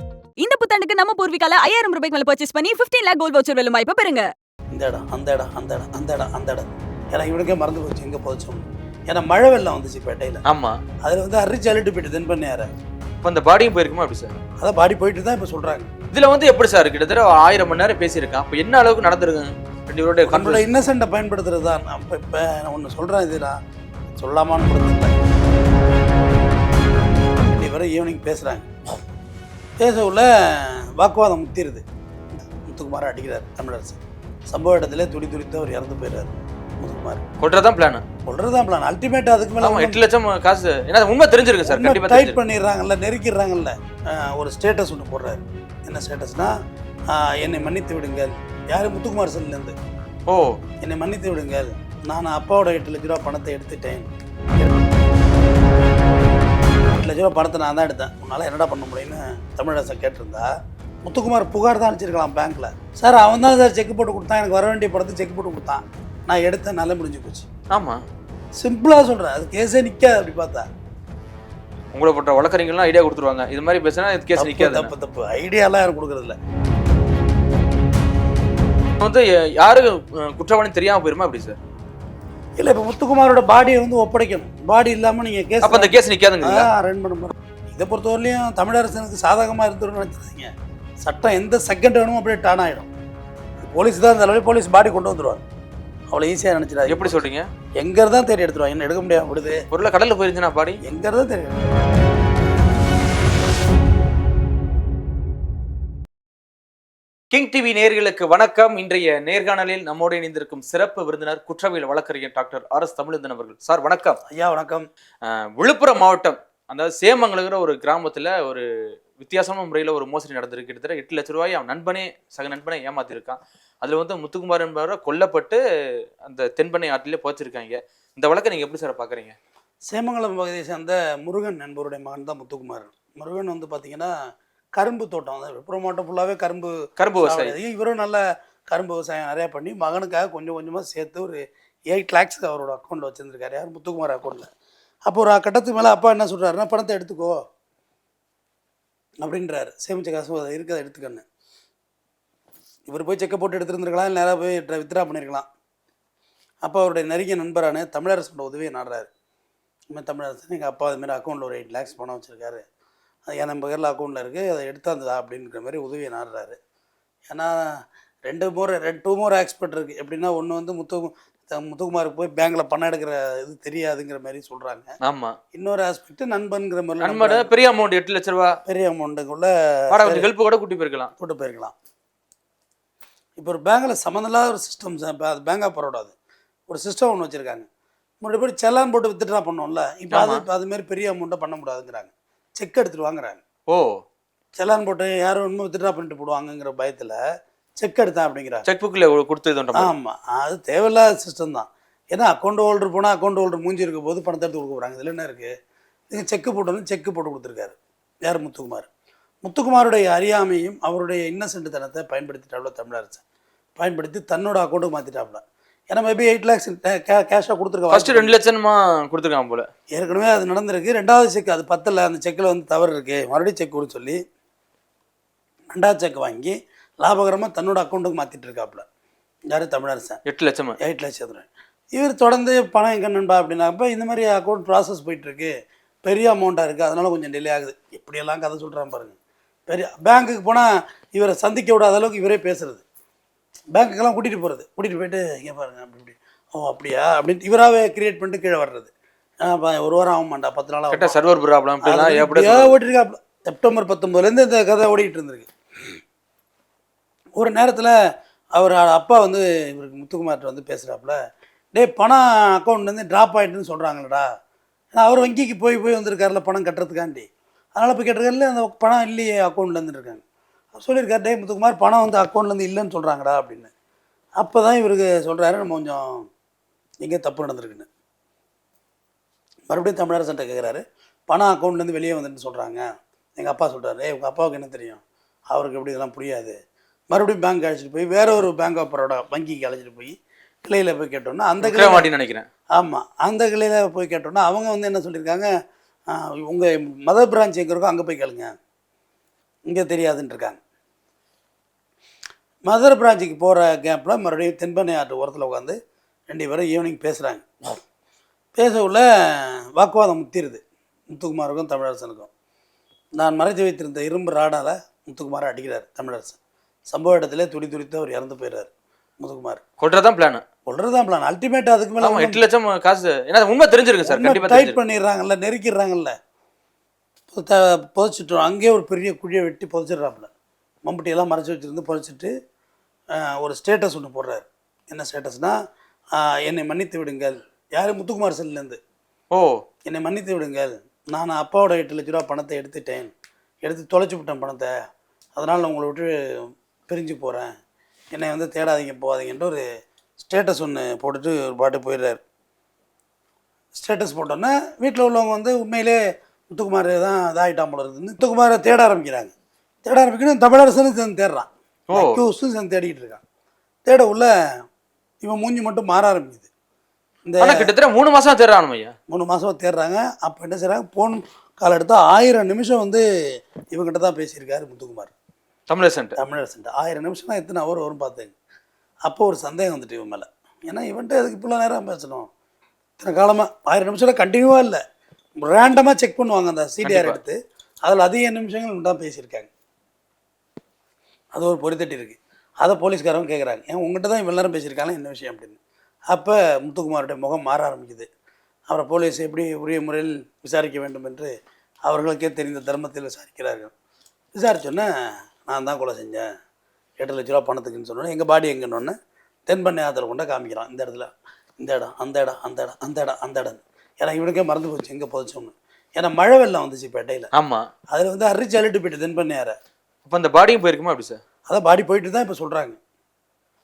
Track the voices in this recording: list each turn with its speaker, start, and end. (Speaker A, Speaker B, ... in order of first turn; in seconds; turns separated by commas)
Speaker A: 0.4-4.3, Speaker B: 4.7-10.4, Speaker C: 10.5-10.8, Speaker B: 11.0-12.7, Speaker C: 13.2-14.4, Speaker B: 14.6-15.9, Speaker C: 16.1-20.7, Speaker B: 20.2-23.6, Speaker B: 24.2-25.1, Speaker B: 27.4-28.7, Speaker B: 29.8-31.8, Speaker B: 32.7-34.0, Speaker B: 34.5-37.2, Speaker C: 37.4-38.0, Speaker B: 38.3-40.0, Speaker C: 39.6-42.4, Speaker B: 41.6-46.5, Speaker B: 47.1-49.7, Speaker C: 50.3-50.6, Speaker B: 50.8-54.1, Speaker B: 57.0-60.5, Speaker B: 61.0-67.5, Speaker C: 67.7-68.0, Speaker B: 68.6-70.7, Speaker C: 71.9-74.9, Speaker B: 74.4-76.3, Speaker C: 79.0-81.6, Speaker B: 82.6-92.9, Speaker C: 85.6-86.7, Speaker B: 93.6-95.4, Speaker B: 96.1-97.2, Speaker C: 96.9-97.5, Speaker B: 97.8-99.7, Speaker C: 99.7-100.8, Speaker B: 100.8-101.6, Speaker C: 107.3-114.2, Speaker B: 114.3-114.9, Speaker C: 115.2-118.7, Speaker C: 119.2-125.6, Speaker C: 126.2-129.4, Speaker B: 129.9-134.1, Speaker B: 134.8-144.5, Speaker C: 137.0-137.6, Speaker B: 145.1-147.4, Speaker B: 149.2-151.2, Speaker B: 152.9-155.5, Speaker B: 156.6-159.1, Speaker B: 159.9-162.6, Speaker B: 163.3-166.6, Speaker B: 167.3-167.6, Speaker B: 168.3-174.9, Speaker C: 175.0-175.4, Speaker B: 175.5-177.5, Speaker C: 177.0-178.6, Speaker B: 178.7-180.3, Speaker C: 179.9-181.1, Speaker B: 181.2-181.7, Speaker B: 183.4-186.1, Speaker B: 186.7-187.7, Speaker B: 188.2-193.4, Speaker C: 190.1-190.4, Speaker C: 193.7-194.0, Speaker B: 194.6-197.2, Speaker B: 197.8-198.7, Speaker C: 198.7-199.9, Speaker B: 199.8-205.5, Speaker B: 206.1-208.9, Speaker B: 209.4-213.2, Speaker B: 213.8-218.3, Speaker C: 217.9-219.7, Speaker B: 219.9-224.2, Speaker B: 225.7-228.8, Speaker B: 229.5-230.2, Speaker C: 230.3-230.8, Speaker B: 230.8-235.5, Speaker B: 236.0-239.2, Speaker B: 239.7-242.8, Speaker B: 243.7-248.9, Speaker B: 249.4-251.2, Speaker C: 250.9-252.8, Speaker B: 251.8-256.0, Speaker B: 257.4-257.9, Speaker B: 258.6-261.2, Speaker B: 261.7-264.3, Speaker B: 264.9-270.2, Speaker B: 270.7-273.7, Speaker B: 274.4-276.2, Speaker B: 277.0-277.9, Speaker B: 279.7-282.8, Speaker B: 283.4-285.0, Speaker B: 285.5-286.5, Speaker B: 287.1-292.1, Speaker C: 291.6-292.5, Speaker B: 292.8-295.5, Speaker B: 296.1-298.5, Speaker B: 299.7-300.6, Speaker B: 302.7-305.8, Speaker B: 306.3-307.8, Speaker B: 308.6-312.3, Speaker B: 313.2-316.4, Speaker B: 316.9-318.7, Speaker B: 319.2-319.6, Speaker C: 319.8-320.4, Speaker B: 320.7-322.4, Speaker C: 322.0-324.8, Speaker B: 324.1-326.1, Speaker B: 327.3-330.3, Speaker B: 330.9-332.3, Speaker B: 333.1-335.6, Speaker B: 336.1-338.8, Speaker C: 339.3-339.6, Speaker B: 339.9-343.1, Speaker B: 343.6-344.7, Speaker B: 345.4-347.5, Speaker B: 348.1-349.6, Speaker B: 350.2-352.2, Speaker B: 353.7-356.0, Speaker B: 356.5-359.3, Speaker B: 359.8-363.2, Speaker C: 361.9-362.2, Speaker B: 363.9-364.3, Speaker B: 365.2-366.5, Speaker B: 367.2-367.5, Speaker C: 367.4-368.9, Speaker B: 369.1-373.0, Speaker B: 373.7-375.1, Speaker C: 375.7-376.2, Speaker B: 376.2-378.3, Speaker B: 379.1-382.3, Speaker B: 383.0-384.8, Speaker B: 385.4-389.5, Speaker C: 386.8-387.2, Speaker B: 391.3-395.6, Speaker B: 396.1-398.1, Speaker B: 398.7-401.3, Speaker B: 401.9-403.7, Speaker B: 404.4-404.9, Speaker B: 405.5-406.2, Speaker B: 407.0-408.9, Speaker B: 409.5-411.1, Speaker B: 411.6-417.3, Speaker C: 417.4-417.7, Speaker B: 417.9-419.5, Speaker C: 420.1-421.2, Speaker B: 421.5-422.8